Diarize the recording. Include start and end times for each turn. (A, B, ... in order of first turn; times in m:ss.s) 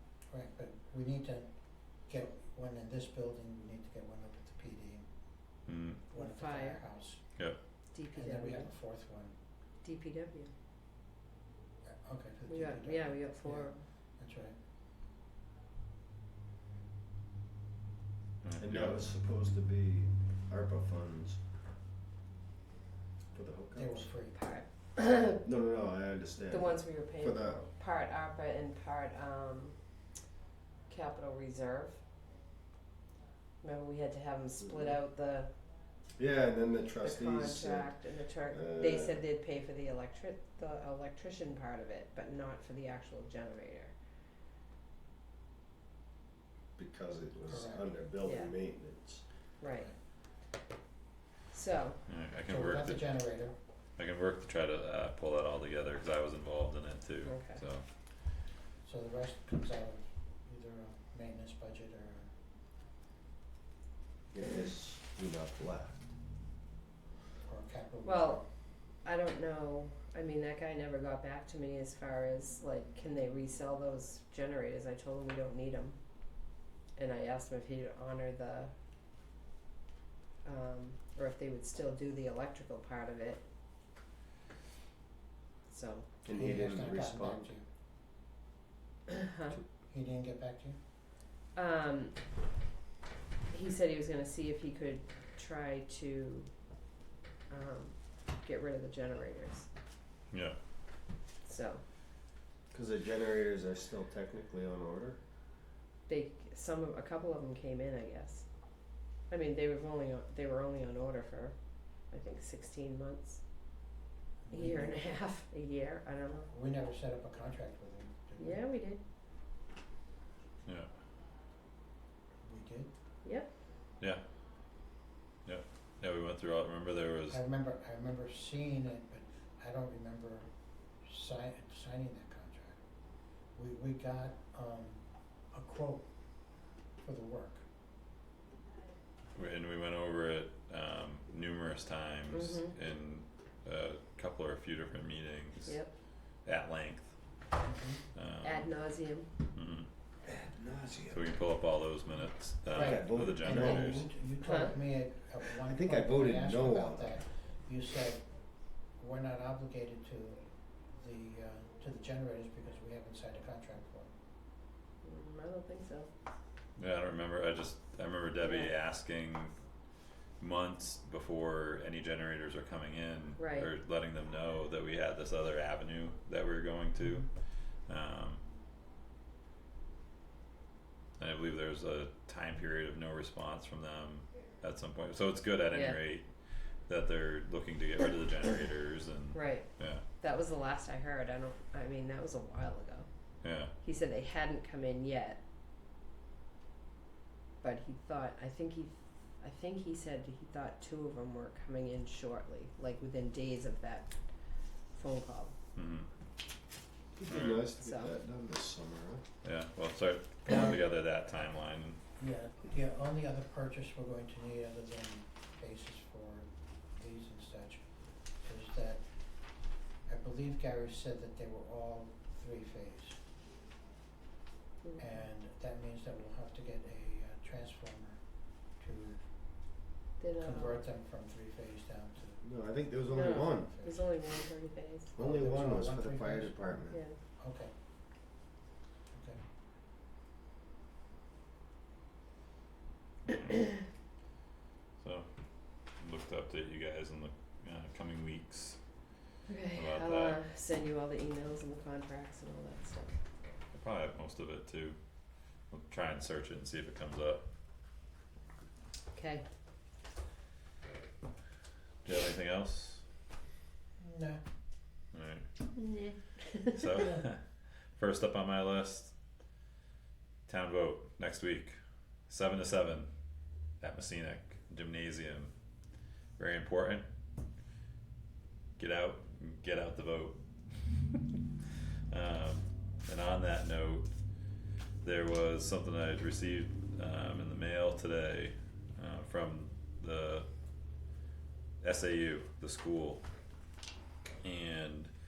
0:00.3-0:01.5 A
0:02.1-0:05.1 A
0:05.7-0:06.0 B
0:06.1-0:06.8 C
0:06.1-0:07.2 A
0:07.9-0:08.7 C
0:08.1-0:09.4 A
0:09.8-0:10.5 C
0:11.8-0:14.6 A
0:12.5-0:13.8 C
0:18.4-0:19.1 B
0:18.6-0:21.4 D
0:23.3-0:24.1 D
0:23.7-0:24.4 A
0:24.3-0:25.4 C
0:25.4-0:27.7 D
0:26.5-0:29.8 C
0:30.9-0:32.0 C
0:33.6-0:35.5 C
0:34.6-0:34.9 D
0:36.2-0:38.0 D
0:37.0-0:43.9 C
0:38.5-0:39.2 D
0:46.8-0:49.2 D
0:47.5-0:47.9 A
0:48.2-0:48.5 C
0:49.6-0:49.9 C
0:51.5-0:52.0 C
0:52.1-0:53.1 B
0:52.5-0:53.6 A
0:54.0-0:57.8 B
0:57.2-0:57.6 C
0:58.8-1:02.3 A
1:04.3-1:06.1 D
1:07.4-1:08.5 A
1:08.0-1:08.4 C
1:09.0-1:16.0 C
1:17.0-1:18.7 C
1:20.4-1:23.4 C
1:25.7-1:26.1 C
1:26.2-1:27.5 D
1:26.3-1:27.7 A
1:29.1-1:29.6 C
1:29.9-1:30.8 A
1:31.6-1:32.2 C
1:33.5-1:36.5 C
1:37.5-1:39.7 C
1:40.3-1:40.6 B
1:41.4-1:41.8 C
1:42.7-1:45.2 D
1:46.1-1:48.5 C
1:49.3-1:51.6 C
1:52.1-1:53.4 C
1:54.5-1:55.0 A
1:54.5-1:56.5 C
1:56.5-1:58.6 A
1:58.4-1:59.0 C
2:02.4-2:02.9 A
2:03.2-2:03.5 C
2:05.4-2:07.4 B
2:07.3-2:10.5 A
2:11.0-2:12.8 A
2:13.6-2:16.1 A
2:17.0-2:17.6 A
2:19.3-2:25.8 B
2:22.3-2:22.8 C
2:26.4-2:27.2 B
2:27.6-2:28.0 A
2:28.1-2:28.7 B
2:28.4-2:29.3 C
2:29.5-2:29.9 B
2:30.3-2:31.3 D
2:31.1-2:34.1 B
2:32.7-2:34.1 D
2:32.7-2:38.3 A
2:34.4-2:34.8 C
2:35.6-2:37.2 D
2:39.0-2:44.1 A
2:45.0-2:46.1 C
2:46.8-2:49.6 B
2:48.4-2:48.7 C
2:50.4-2:57.3 B
2:53.4-2:53.7 C
2:57.8-2:58.4 B
3:01.2-3:06.3 B
3:05.7-3:06.0 C
3:06.9-3:10.0 B
3:09.3-3:13.1 C
3:13.4-3:13.7 B
3:13.8-3:15.4 C
3:17.6-3:24.2 C
3:24.9-3:25.6 C
3:25.8-3:26.1 B
3:27.2-3:29.2 D
3:27.2-3:27.6 B
3:27.8-3:28.1 C
3:29.4-3:32.0 B
3:32.2-3:37.8 A
3:38.4-3:39.0 A
3:40.1-3:43.2 A
3:44.8-3:45.1 C
3:45.0-3:49.2 A
3:50.2-3:50.9 C
3:50.4-3:52.4 A
3:52.4-3:53.7 D
3:53.1-3:55.1 C
3:53.6-3:54.0 A
3:55.2-3:57.0 D
3:55.2-3:56.6 A
3:56.9-3:57.2 C
3:57.4-3:57.7 A
3:59.1-3:59.4 A
4:05.0-4:05.3 B
4:06.0-4:08.8 B
4:09.5-4:13.2 C
4:09.8-4:10.4 B
4:13.7-4:15.0 B
4:15.7-4:17.4 B
4:19.1-4:19.4 C
4:22.0-4:23.0 B
4:24.0-4:24.4 A
4:25.1-4:25.5 B
4:25.8-4:26.7 C
4:26.7-4:27.4 B
4:28.0-4:29.2 B
4:30.5-4:31.8 B
4:32.3-4:33.1 B
4:33.8-4:35.5 B
4:36.4-4:37.1 B
4:38.8-4:40.4 B
4:42.1-4:44.1 B
4:45.0-4:50.5 B
4:51.8-4:53.3 B
4:54.4-4:55.1 B